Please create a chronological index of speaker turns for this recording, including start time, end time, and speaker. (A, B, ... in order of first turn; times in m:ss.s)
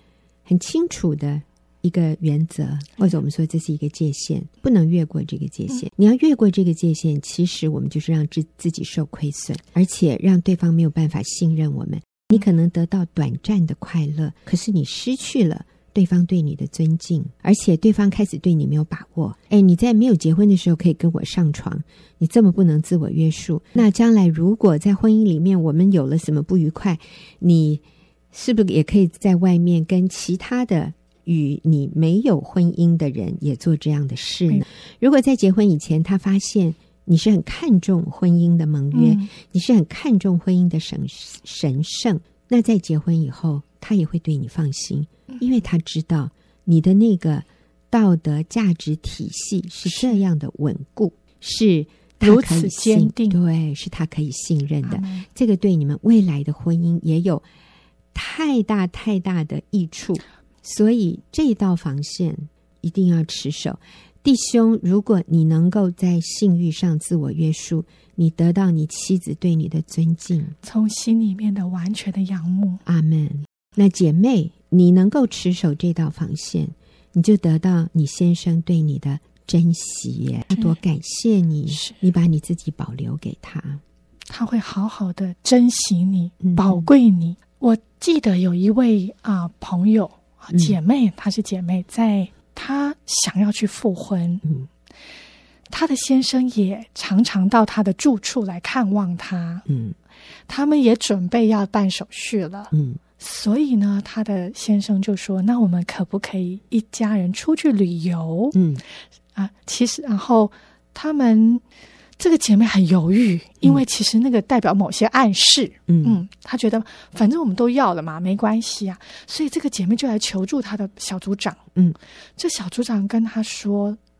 0:00.4-0:57.4 A
0:38.9-0:39.3 B
0:49.9-0:50.2 B
0:52.2-0:53.4 B
0:54.8-0:55.3 B
0:58.1-1:10.6 A
1:10.6-1:12.8 B
1:12.8-1:23.8 A
1:20.5-1:20.8 B
1:21.7-1:22.0 B
1:24.3-1:34.4 B
1:26.4-1:26.9 A
1:30.5-1:30.8 A
1:35.7-1:39.6 B
1:39.7-1:40.0 A
1:40.5-1:48.6 B
1:42.7-1:43.0 A
1:48.5-1:48.8 A
1:49.3-1:51.6 B
1:52.2-2:01.6 B
1:55.9-1:56.2 A
2:02.4-2:04.0 B